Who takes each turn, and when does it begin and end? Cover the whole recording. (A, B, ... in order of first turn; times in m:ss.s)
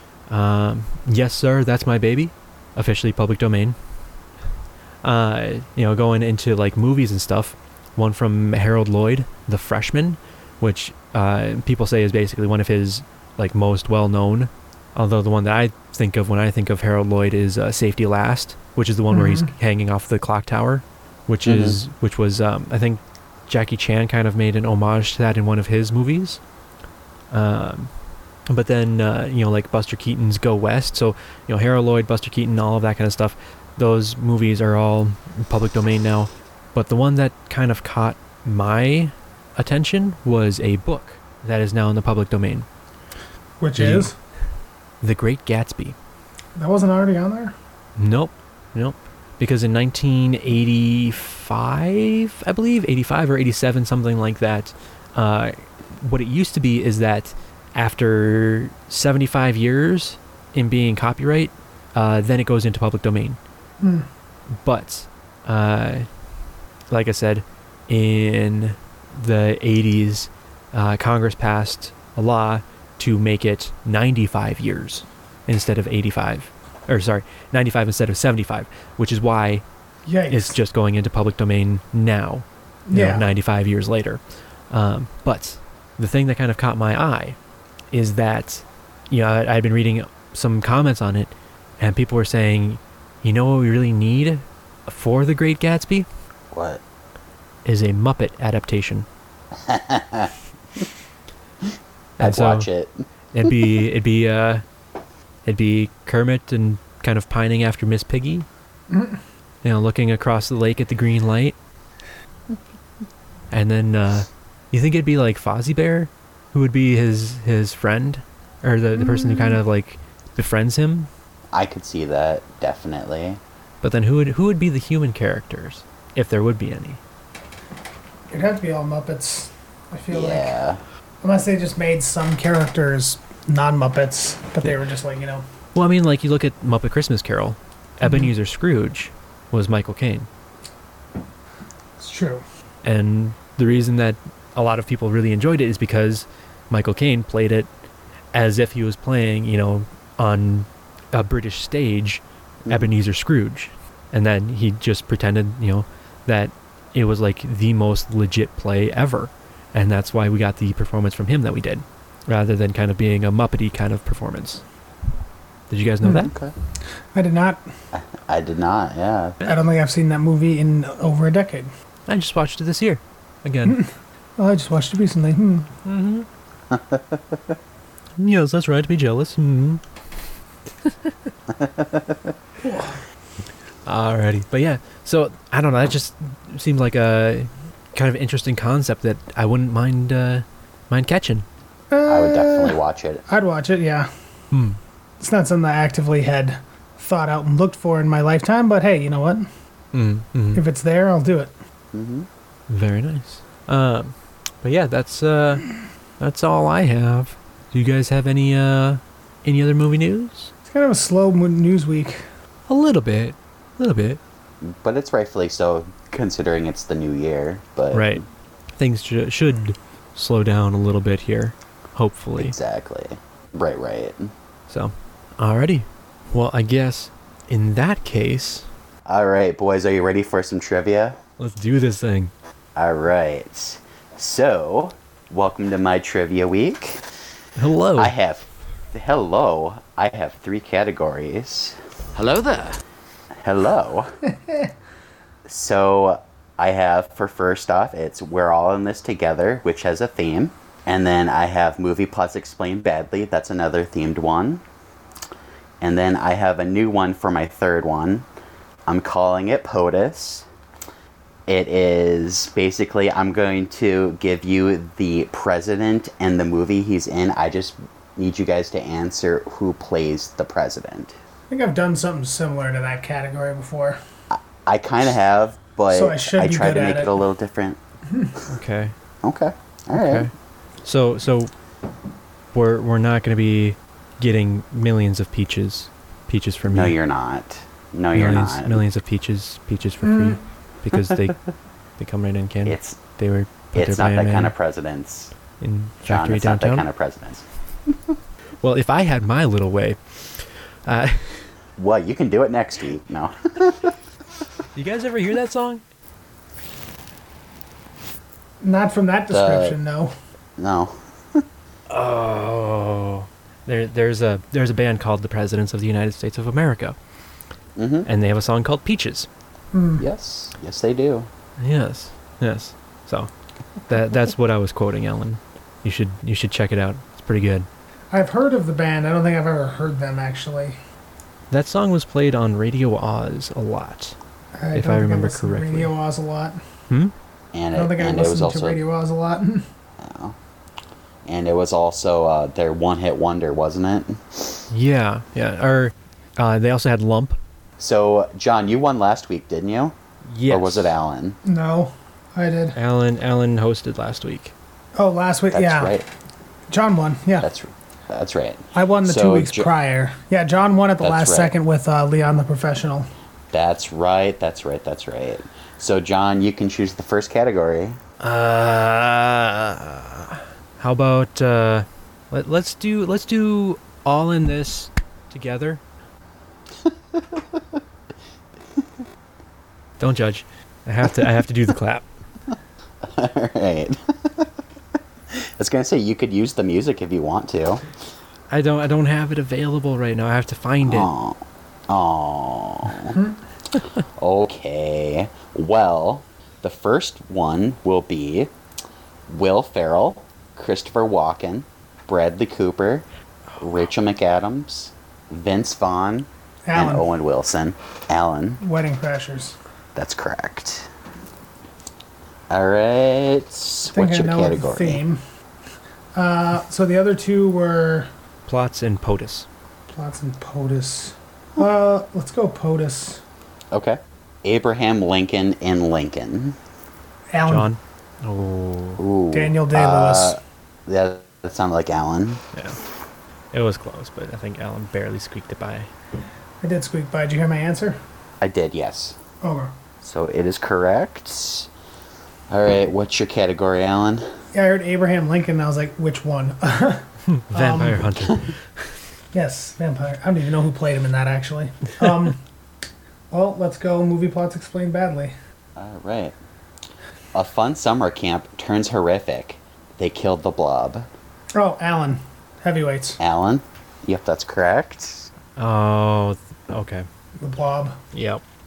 0:00.3-0:03.8 A
0:05.0-0:26.4 A
0:19.1-0:19.5 B
0:21.4-0:21.8 C
0:27.3-0:27.9 A
0:28.5-0:42.7 A
0:43.6-0:44.2 B
0:43.8-0:44.1 A
0:45.0-0:46.0 A
0:46.6-0:47.6 B
0:48.0-1:03.4 A
1:03.8-1:04.1 B
1:04.6-1:06.1 A
1:06.9-1:19.6 A
1:20.1-1:20.6 B
1:20.3-1:24.2 A
1:22.9-1:23.3 B
1:24.7-1:27.4 A
1:27.9-1:36.1 A
1:36.5-1:36.8 C
1:37.6-1:39.1 A
1:39.6-1:40.8 C
1:41.6-1:43.7 C
1:42.2-1:42.7 A
1:43.3-1:44.6 A
1:45.4-1:48.5 A
1:48.9-1:49.2 B
1:49.6-1:51.6 A
1:53.5-2:01.1 A
1:59.0-1:59.6 B
2:01.5-2:03.4 C
2:03.8-2:07.0 A
2:08.3-2:10.5 B
2:10.1-2:10.8 C
2:11.2-2:15.4 B
2:15.8-2:20.3 A
2:18.0-2:18.3 B
2:22.0-2:22.4 B
2:22.8-2:27.7 A
2:28.3-2:44.6 A
2:32.6-2:32.9 C
2:45.7-2:46.3 A
2:46.0-2:46.3 B
2:46.2-2:46.5 C
2:47.1-2:47.7 B
2:47.9-2:49.4 C
2:49.5-2:51.7 B
2:52.1-2:53.8 A
2:53.7-2:55.7 B
2:55.8-2:56.3 A
2:56.7-2:57.6 C
2:58.2-2:59.8 A
3:00.8-3:01.1 A
3:01.5-3:02.3 C
3:02.7-3:03.0 A
3:03.8-3:11.5 A
3:11.9-3:14.1 B
3:12.1-3:13.2 C
3:14.5-3:14.8 A
3:15.2-3:19.5 B
3:19.9-3:20.6 A
3:20.6-3:21.5 B
3:21.9-3:22.3 C
3:22.7-3:25.7 A
3:26.2-3:30.5 A
3:30.6-3:32.3 B
3:32.7-3:34.2 A
3:34.6-3:38.2 C
3:37.9-3:38.2 A
3:38.8-3:42.6 A
3:42.4-3:44.3 C
3:44.7-3:48.7 A
3:49.1-3:51.2 C
3:51.4-3:52.3 A
3:52.8-3:57.1 C
3:57.6-3:58.1 A
3:58.0-4:02.8 C
4:03.4-4:04.1 C
4:04.4-4:04.7 B
4:05.5-4:14.6 C
4:15.8-4:18.3 C
4:18.9-4:20.5 C
4:21.5-4:31.2 C
4:31.5-4:34.0 B
4:34.3-4:37.8 C
4:35.9-4:37.1 B
4:38.5-4:38.9 A
4:39.2-4:40.3 C
4:39.9-4:40.3 A
4:40.8-4:41.5 A
4:42.5-4:47.0 A
4:46.7-4:48.8 C
4:48.1-4:51.4 A
4:50.0-4:50.3 B
4:52.0-4:54.5 A
4:52.6-4:53.0 C
4:53.7-4:55.3 C
4:55.6-4:56.9 A
4:56.0-4:57.9 C
4:58.6-5:00.0 A
5:00.9-5:01.5 A
5:01.8-5:04.0 C
5:04.8-5:05.8 A
5:08.6-5:10.1 B
5:09.3-5:09.8 C
5:10.6-5:11.4 C
5:11.9-5:17.0 A
5:17.8-5:18.1 C
5:18.0-5:19.3 A
5:19.7-5:20.1 B
5:20.0-5:21.3 C
5:21.6-5:23.3 A
5:23.9-5:27.7 A
5:28.1-5:30.8 B
5:31.5-5:34.2 A
5:34.6-5:36.6 B
5:34.7-5:35.9 A
5:37.5-5:38.8 C
5:37.7-5:39.7 B
5:40.0-5:40.4 C
5:41.2-5:44.6 C
5:44.7-5:47.4 A
5:47.8-5:50.0 C
5:50.2-5:51.0 A
5:50.5-5:51.4 C
5:51.4-5:52.8 B
5:52.8-5:54.5 A
5:55.0-5:56.0 B
5:55.5-5:56.1 C
5:56.7-5:57.5 B
5:57.4-5:59.7 C
5:58.8-6:03.1 B
6:01.0-6:01.5 C
6:03.5-6:08.0 C
6:08.2-6:15.8 A
6:16.8-6:17.8 C
6:20.0-6:22.1 A
6:23.0-6:24.5 C
6:25.3-6:27.8 C
6:28.5-6:31.1 A
6:30.8-6:33.2 C
6:34.2-6:38.5 C
6:39.3-6:43.1 C
6:43.6-6:48.6 C
6:46.7-6:47.1 B
6:48.6-6:49.6 B
6:50.0-6:50.9 C
6:52.5-6:55.0 C
6:53.9-6:55.2 B
6:56.2-6:58.1 B
6:58.5-6:59.5 A
6:59.9-7:03.2 B
7:03.7-7:06.6 C
7:07.3-7:07.7 B
7:07.4-7:09.0 A
7:09.0-7:12.4 C
7:09.3-7:10.4 B
7:13.5-7:15.9 A
7:16.6-7:18.0 B
7:18.4-7:19.2 C
7:19.4-7:19.7 B
7:20.0-7:21.7 C
7:22.5-7:24.3 C
7:24.5-7:28.1 B
7:27.3-7:28.5 A
7:29.3-7:32.4 B
7:33.3-7:35.3 B
7:35.8-7:36.4 C
7:37.3-7:41.1 C
7:41.6-7:43.2 B
7:43.2-7:45.3 C
7:45.6-7:47.1 A
7:47.4-7:48.0 B
7:48.1-7:48.4 A